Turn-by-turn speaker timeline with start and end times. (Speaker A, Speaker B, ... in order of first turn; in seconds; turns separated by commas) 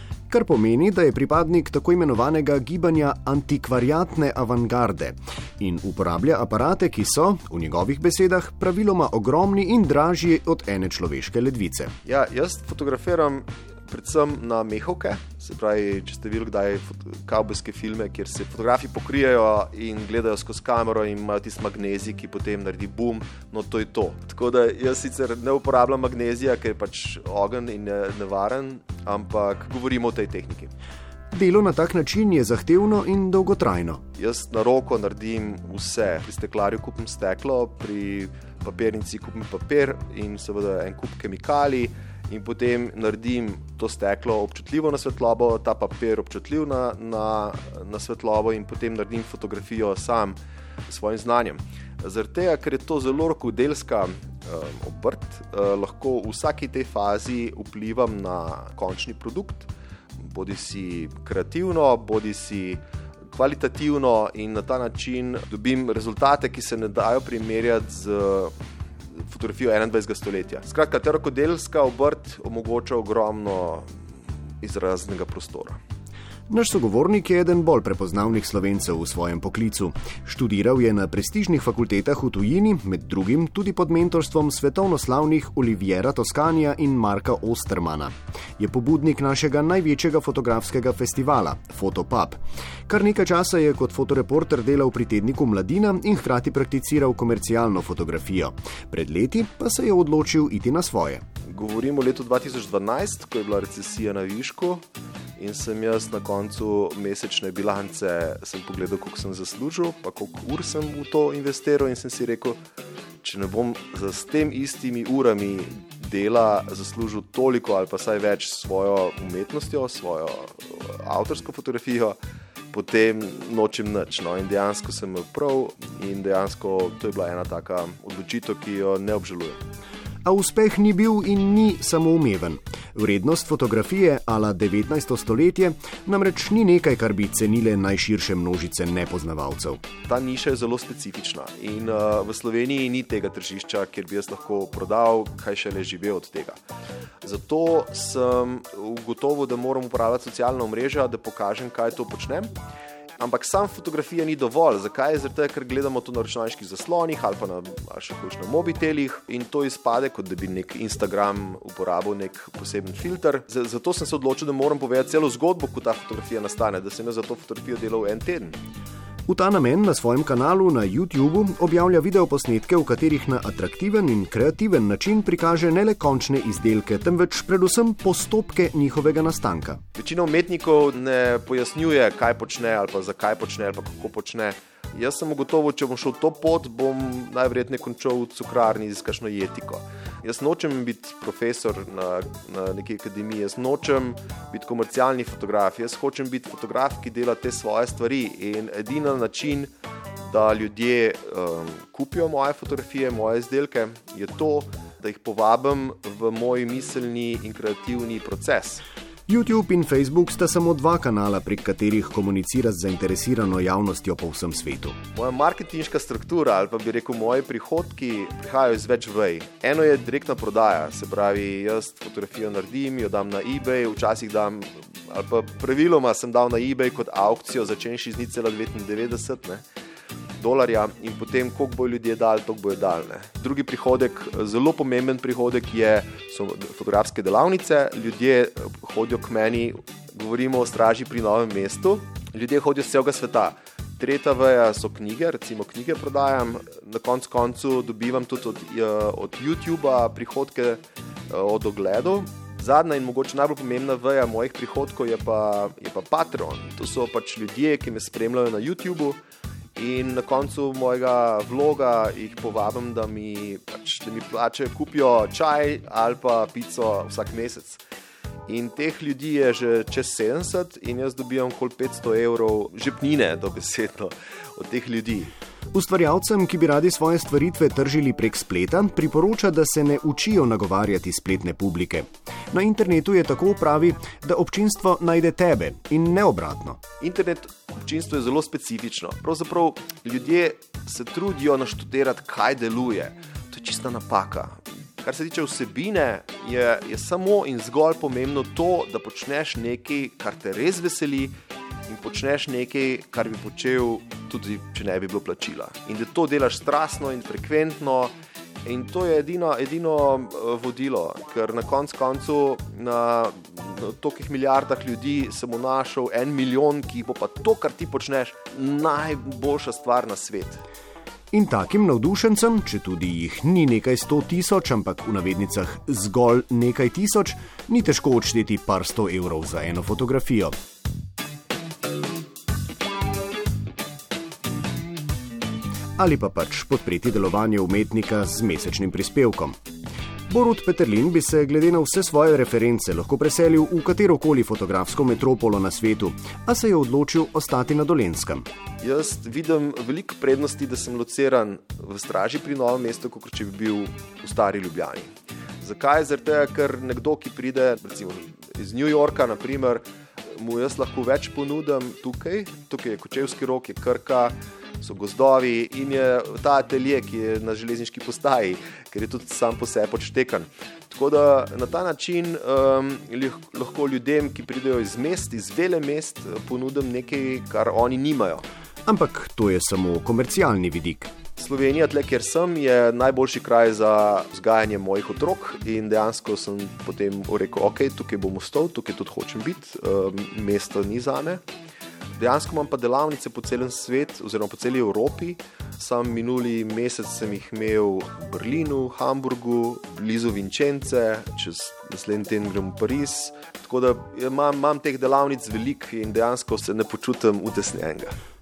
Speaker A: 0.3-11.9, Speaker B: 12.1-30.7, Speaker A: 31.3-34.0, Speaker B: 34.2-59.7, Speaker B: 60.2-62.8, Speaker B: 63.3-68.5, Speaker B: 69.2-73.9, Speaker B: 74.6-75.8, Speaker A: 76.5-101.2, Speaker B: 101.5-104.9, Speaker B: 105.4-112.6, Speaker B: 113.2-122.2, Speaker B: 122.7-129.6, Speaker A: 130.2-139.8, Speaker B: 140.1-146.6, Speaker B: 147.2-152.5, Speaker B: 153.2-168.6, Speaker A: 169.3-179.8, Speaker B: 180.0-199.7, Speaker B: 200.3-208.8, Speaker A: 209.3-215.0, Speaker B: 215.1-229.7, Speaker B: 230.4-259.2, Speaker B: 259.8-267.8, Speaker B: 268.5-275.3, Speaker A: 275.7-286.8, Speaker B: 287.0-301.3, Speaker B: 301.9-308.1, Speaker B: 308.6-320.6, Speaker A: 321.3-330.5, Speaker A: 336.0-339.6, Speaker A: 340.3-348.5, Speaker B: 348.8-355.1, Speaker B: 355.6-378.4, Speaker A: 378.9-381.1, Speaker B: 381.4-391.4, Speaker B: 392.2-408.2